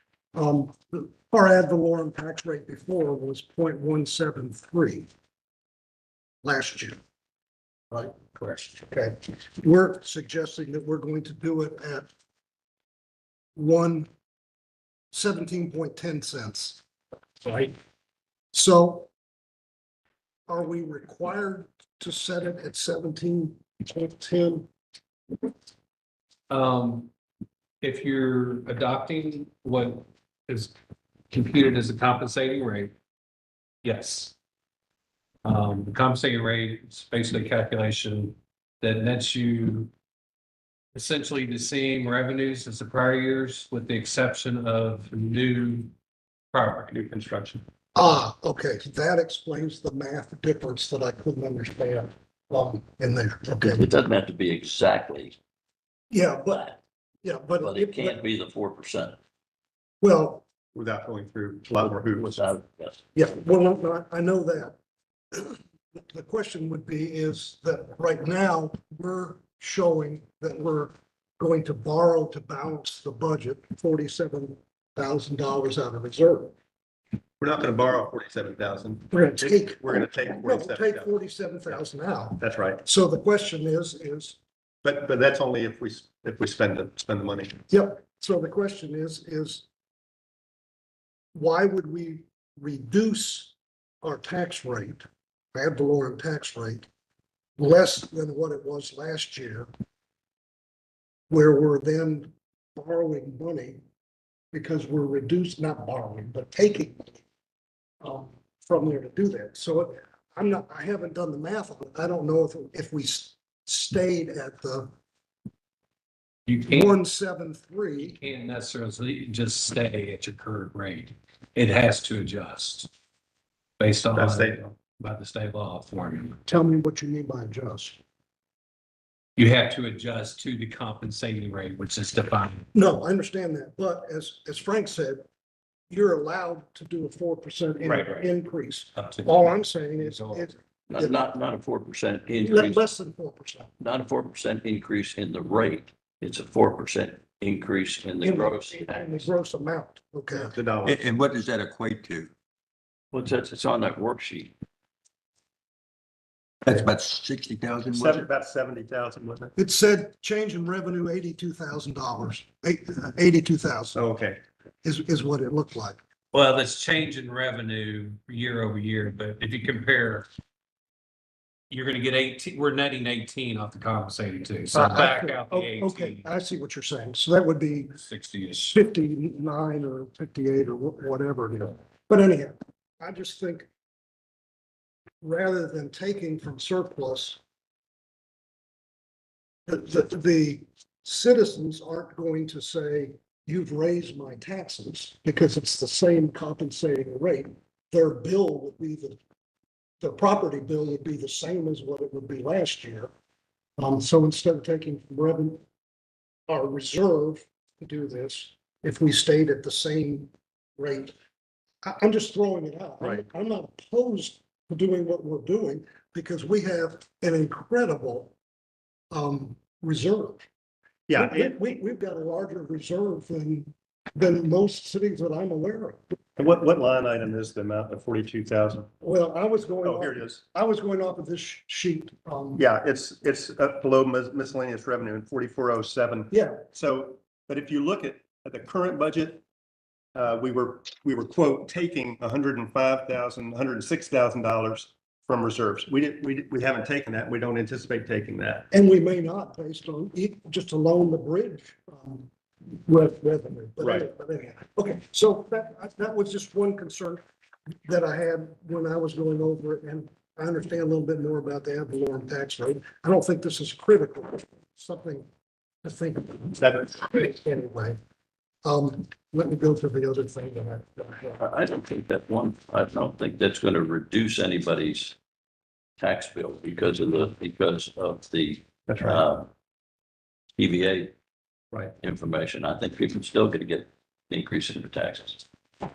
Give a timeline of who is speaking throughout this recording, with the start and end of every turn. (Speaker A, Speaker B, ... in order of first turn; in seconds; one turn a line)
Speaker A: 0.3-5.1
Speaker A: 6.4-7.0
Speaker A: 7.9-12.1
Speaker A: 13.6-14.1
Speaker A: 15.1-16.8
Speaker A: 17.4-17.7
Speaker A: 18.5-19.1
Speaker A: 20.5-24.7
Speaker B: 26.5-27.1
Speaker B: 27.8-30.7
Speaker B: 31.3-32.9
Speaker B: 33.8-34.3
Speaker B: 35.4-39.9
Speaker B: 40.9-45.9
Speaker B: 46.5-46.9
Speaker C: 46.9-47.6
Speaker A: 47.9-53.8
Speaker D: 53.6-55.4
Speaker A: 56.1-58.2
Speaker D: 57.6-59.2
Speaker A: 60.0-60.4
Speaker C: 60.7-62.4
Speaker D: 61.9-63.0
Speaker A: 63.1-64.8
Speaker A: 65.3-76.5
Speaker C: 77.4-81.1
Speaker A: 79.1-84.4
Speaker C: 82.4-82.8
Speaker C: 84.8-87.6
Speaker A: 87.7-89.6
Speaker A: 91.3-96.8
Speaker A: 97.6-99.7
Speaker A: 101.3-103.8
Speaker A: 104.5-107.2
Speaker A: 108.0-114.9
Speaker B: 116.5-117.0
Speaker A: 116.7-118.2
Speaker B: 118.0-122.9
Speaker B: 123.8-126.4
Speaker C: 124.1-124.6
Speaker A: 126.5-128.0
Speaker B: 129.4-132.7
Speaker A: 132.7-135.2
Speaker A: 135.9-141.2
Speaker B: 137.9-138.2
Speaker B: 138.9-140.5
Speaker D: 140.9-142.8
Speaker A: 142.4-143.7
Speaker D: 143.8-149.3
Speaker A: 148.2-150.5
Speaker C: 150.3-151.0
Speaker E: 150.8-152.3
Speaker D: 153.1-154.5
Speaker E: 156.6-158.3
Speaker C: 157.9-159.5
Speaker A: 159.6-164.0
Speaker C: 163.9-164.4
Speaker A: 164.8-166.0
Speaker B: 166.3-170.2
Speaker B: 171.7-176.3
Speaker A: 174.7-178.0
Speaker B: 178.0-178.8
Speaker A: 178.7-183.7
Speaker A: 185.2-187.4
Speaker A: 189.7-199.2
Speaker A: 200.0-203.1
Speaker A: 203.8-205.6
Speaker A: 206.5-211.1
Speaker A: 211.8-218.3
Speaker A: 219.1-220.4
Speaker C: 221.1-221.5
Speaker A: 221.2-226.0
Speaker C: 226.4-228.9
Speaker A: 229.0-232.6
Speaker C: 229.8-230.4
Speaker C: 232.6-239.4
Speaker A: 236.3-236.6
Speaker C: 240.1-248.7
Speaker A: 248.7-257.2
Speaker C: 253.8-254.1
Speaker A: 257.9-265.3
Speaker A: 265.8-268.0
Speaker C: 266.6-266.9
Speaker A: 268.6-271.4
Speaker D: 271.4-275.1
Speaker D: 276.0-279.5
Speaker C: 278.9-279.2
Speaker D: 280.6-281.1
Speaker D: 282.0-285.4